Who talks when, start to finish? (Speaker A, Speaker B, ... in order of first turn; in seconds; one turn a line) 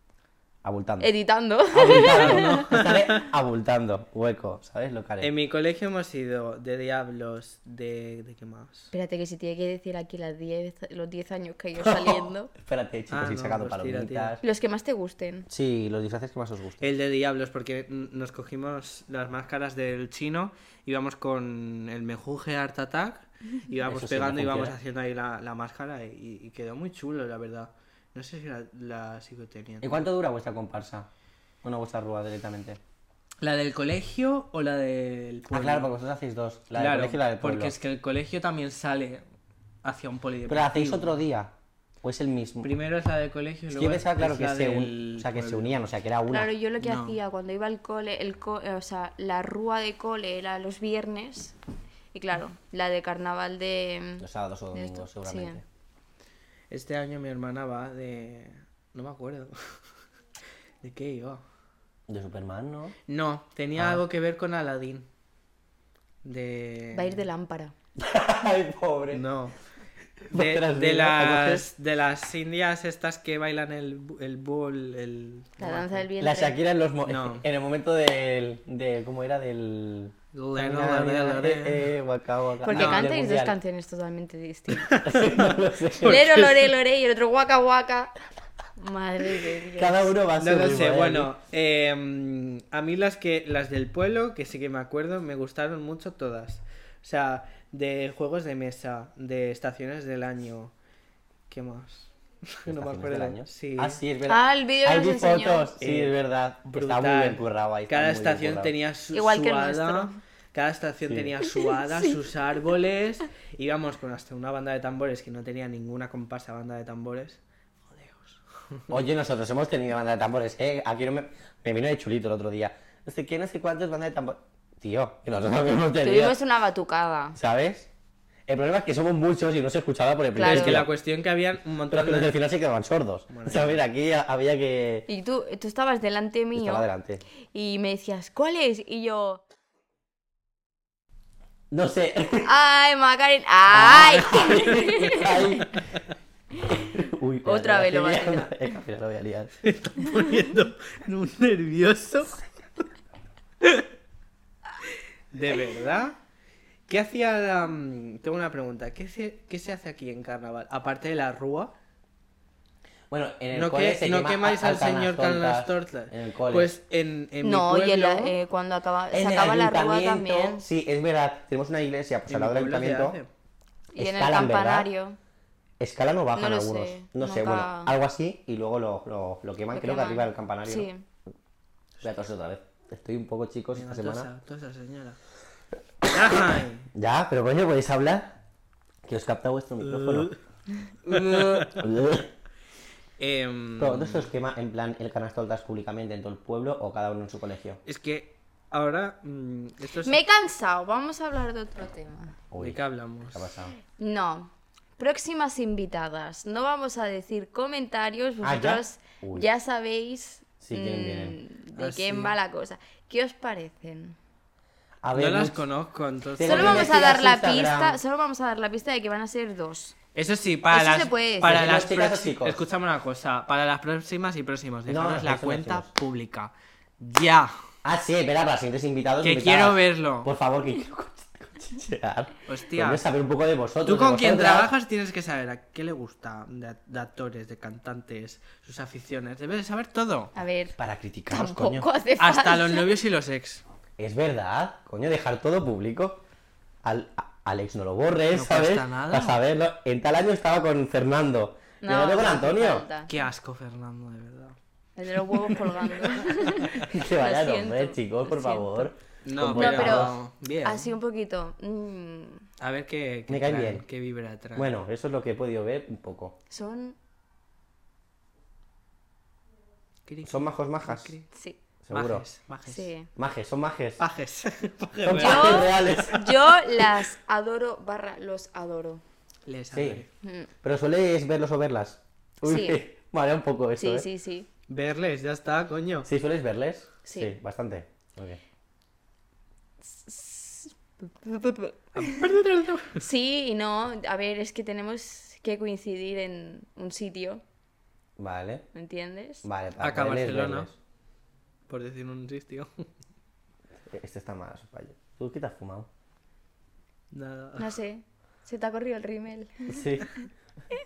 Speaker A: 0.6-1.1
Speaker B: 1.0-2.6
Speaker A: 1.7-5.3
Speaker C: 1.8-3.3
Speaker C: 5.2-8.9
Speaker B: 8.9-12.5
Speaker A: 11.8-14.4
Speaker C: 13.1-14.4
Speaker B: 14.4-15.5
Speaker A: 15.5-16.9
Speaker C: 16.8-30.0
Speaker A: 23.9-24.8
Speaker A: 29.8-31.1
Speaker A: 31.6-32.8
Speaker C: 33.4-35.9
Speaker A: 35.5-37.8
Speaker C: 36.8-39.2
Speaker C: 39.8-41.1
Speaker A: 40.5-41.5
Speaker A: 42.0-42.7
Speaker C: 42.6-45.8
Speaker A: 43.7-46.5
Speaker B: 46.3-51.5
Speaker C: 46.8-47.2
Speaker B: 52.1-55.6
Speaker A: 54.2-55.6
Speaker C: 56.7-59.8
Speaker C: 60.8-61.4
Speaker A: 62.1-62.9
Speaker C: 63.1-65.1
Speaker A: 63.8-64.0
Speaker C: 66.2-67.2
Speaker B: 66.9-67.7
Speaker A: 68.0-69.2
Speaker C: 69.1-69.5
Speaker A: 70.3-71.7
Speaker C: 70.3-76.1
Speaker B: 75.6-76.5
Speaker A: 76.2-83.5
Speaker C: 77.0-77.4
Speaker C: 80.3-81.9
Speaker B: 82.6-85.0
Speaker C: 82.7-83.1
Speaker C: 84.8-86.7
Speaker A: 85.0-86.2
Speaker B: 86.0-88.1
Speaker B: 88.8-90.1
Speaker A: 89.8-91.3
Speaker C: 90.4-100.7
Speaker C: 101.5-104.0
Speaker A: 102.7-108.7
Speaker B: 104.3-105.7
Speaker C: 105.8-119.0
Speaker B: 109.1-110.2
Speaker A: 111.1-111.3
Speaker A: 118.9-126.4
Speaker B: 126.0-127.4
Speaker A: 127.3-127.9
Speaker A: 128.5-130.9
Speaker B: 130.3-130.8
Speaker C: 130.4-132.3
Speaker A: 131.9-135.1
Speaker C: 133.3-133.8
Speaker B: 135.1-136.9
Speaker A: 136.5-137.2
Speaker B: 137.5-139.4
Speaker A: 141.7-142.5
Speaker B: 142.4-145.6
Speaker A: 143.7-145.8
Speaker A: 146.7-149.5
Speaker B: 147.4-148.5
Speaker C: 149.6-152.4
Speaker C: 155.3-156.2
Speaker C: 156.9-161.7
Speaker A: 163.1-166.8
Speaker C: 163.5-168.3
Speaker B: 167.4-170.6
Speaker A: 169.1-173.2
Speaker C: 172.3-173.3
Speaker B: 173.9-175.2
Speaker A: 174.0-174.9
Speaker A: 175.8-180.9
Speaker B: 176.3-177.9
Speaker B: 179.7-181.0
Speaker A: 182.0-184.3
Speaker C: 183.8-185.2
Speaker C: 186.1-186.9
Speaker A: 186.9-188.4
Speaker A: 189.0-190.3
Speaker C: 189.8-190.3
Speaker A: 191.1-192.3
Speaker C: 191.1-191.8
Speaker C: 193.2-194.3
Speaker A: 193.8-197.8
Speaker C: 197.8-200.2
Speaker B: 200.0-202.3
Speaker A: 202.5-203.8
Speaker C: 202.6-203.5
Speaker B: 204.0-214.2
Speaker A: 208.4-209.5
Speaker A: 210.6-211.4
Speaker C: 211.8-212.3
Speaker A: 215.0-215.6
Speaker C: 215.1-217.0
Speaker A: 216.4-218.0
Speaker B: 216.4-220.0
Speaker C: 220.1-227.5
Speaker B: 220.7-221.8
Speaker A: 221.4-222.6
Speaker A: 224.9-225.9
Speaker A: 227.8-234.7
Speaker C: 229.2-230.3
Speaker C: 232.5-233.0
Speaker C: 233.8-240.3
Speaker B: 240.3-240.8
Speaker A: 240.8-241.9
Speaker B: 241.3-243.0
Speaker C: 242.2-243.6
Speaker A: 244.0-246.2
Speaker A: 246.8-252.9
Speaker C: 248.3-249.4
Speaker B: 251.8-253.1
Speaker C: 253.1-254.6
Speaker B: 255.0-258.9
Speaker C: 255.3-256.2
Speaker A: 256.8-260.2
Speaker C: 259.2-260.9
Speaker B: 259.5-262.5
Speaker C: 262.6-264.7
Speaker A: 263.3-263.8
Speaker A: 264.5-266.4
Speaker B: 266.5-267.0
Speaker C: 270.1-271.3
Speaker A: 270.2-271.1
Speaker B: 271.3-271.6
Speaker A: 271.8-272.2
Speaker C: 271.9-272.9
Speaker B: 272.7-273.1
Speaker A: 273.1-274.0
Speaker C: 274.0-276.3
Speaker A: 275.0-276.2
Speaker B: 275.2-279.0
Speaker C: 279.5-280.1
Speaker A: 279.7-280.0
Speaker B: 280.2-280.5
Speaker A: 280.6-284.1
Speaker B: 282.4-282.8
Speaker B: 283.8-284.5
Speaker C: 284.7-286.1
Speaker A: 286.1-288.4
Speaker B: 287.1-287.3
Speaker B: 289.8-292.3
Speaker C: 291.9-293.0
Speaker B: 293.0-297.4
Speaker A: 298.2-298.6
Speaker B: 298.7-299.5
Speaker A: 299.4-300.8
Speaker C: 299.8-300.7
Speaker C: 301.7-302.8
Speaker A: 303.9-305.9
Speaker C: 307.1-307.7
Speaker B: 307.6-310.1
Speaker A: 309.7-310.1